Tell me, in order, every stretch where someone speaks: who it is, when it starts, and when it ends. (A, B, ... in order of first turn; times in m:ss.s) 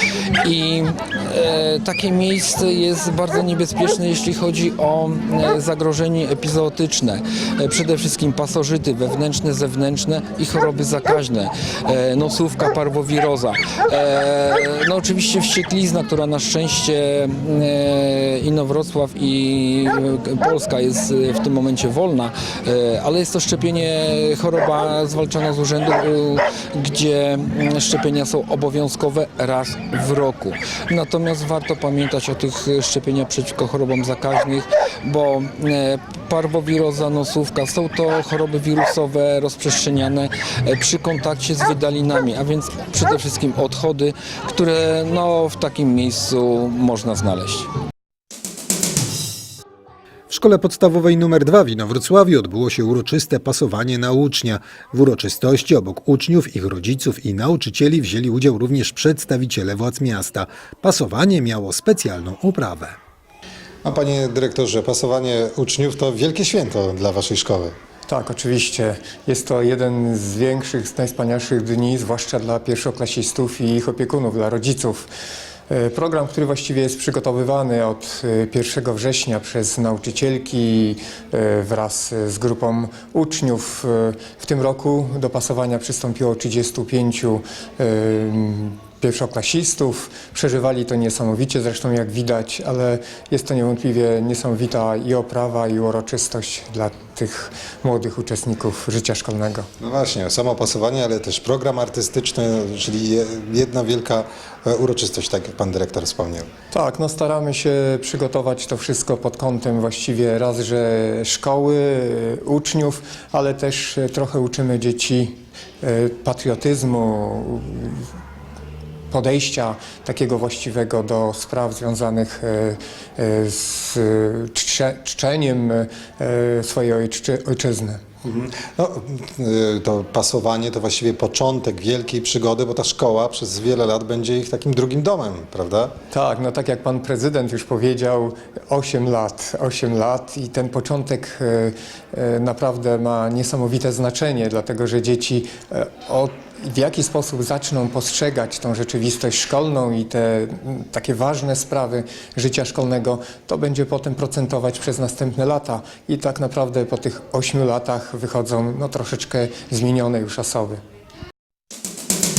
0:00.4-0:47.7 A
0:50.3-1:03.0 B
1:03.8-1:07.7 C
1:08.1-1:15.1 D
1:15.7-1:39.7 D
1:39.8-1:46.5 C
1:46.7-1:58.1 D
1:59.1-2:08.0 D
2:08.2-2:15.9 C
2:16.1-2:40.8 D